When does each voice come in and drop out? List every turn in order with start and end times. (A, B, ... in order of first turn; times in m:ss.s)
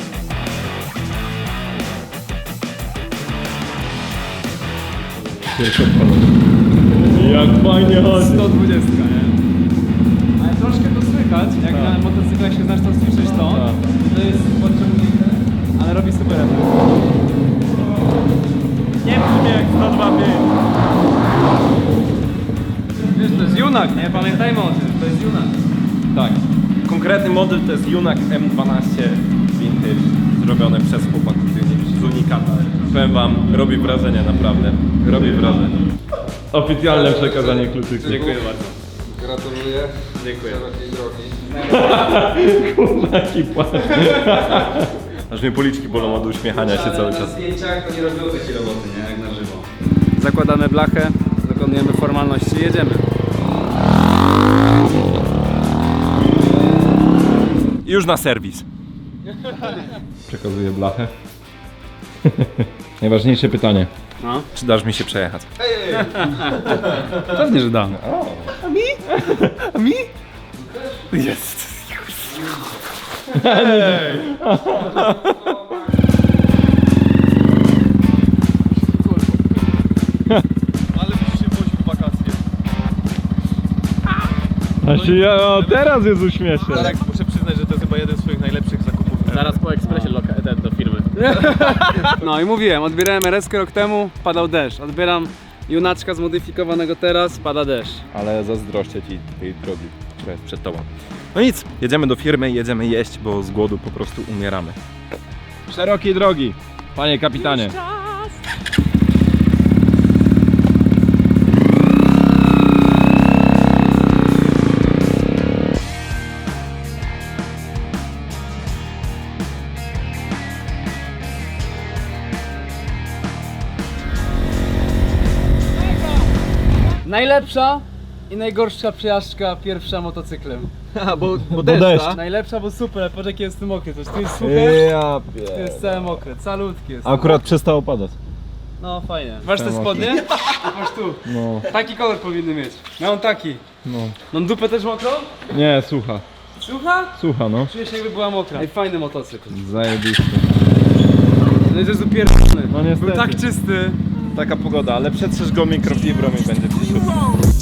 0:05.1-0:05.4 A
0:05.5-0:06.4 B
0:06.9-0:08.6 B
0:06.9-0:09.4 A
0:10.4-0:17.1 A
0:11.7-0:12.0 B
0:13.2-0:13.8 B
0:19.0-0:20.3 A
0:19.2-0:20.4 B
0:23.1-0:25.6 A
0:26.1-0:35.8 B
0:36.5-0:38.4 B
0:36.8-0:41.4 C
0:38.0-0:38.8 A
0:40.1-0:40.6 A
0:41.5-0:42.3 A
0:41.6-0:47.4 B
0:44.0-0:44.7 A
0:46.0-0:53.1 A
0:57.8-0:58.7 B
1:00.3-1:01.1 B
1:02.2-1:03.9 B
1:04.2-1:04.5 A
1:04.5-1:07.2 B
1:05.7-1:08.0 A
1:07.9-1:10.0 B
1:08.6-1:09.6 A
1:10.6-1:11.1 A
1:11.1-1:12.4 B
1:12.2-1:12.8 A
1:13.2-1:15.6 B
1:13.3-1:15.8 A
1:18.9-1:19.4 A
1:21.0-1:22.4 D
1:21.8-1:22.1 B
1:24.8-1:29.6 B
1:27.0-1:28.6 D
1:29.2-1:31.2 E
1:29.7-1:30.2 A
1:31.1-1:38.0 A
1:38.1-1:44.8 B
1:45.7-1:47.8 B
1:47.3-1:48.4 A
2:07.0-2:17.5 A
2:11.2-2:12.2 B
2:14.4-2:16.2 B
2:17.0-2:18.2 B
2:18.8-2:23.6 A
2:19.4-2:20.6 B
2:21.2-2:21.7 B
2:23.8-2:24.2 B
2:24.3-2:25.4 A
2:25.5-2:26.2 B
2:26.6-2:29.6 A
2:27.2-2:27.7 B
2:29.5-2:30.5 B
2:31.6-2:34.0 A
2:32.6-2:33.4 B
2:34.2-2:37.4 B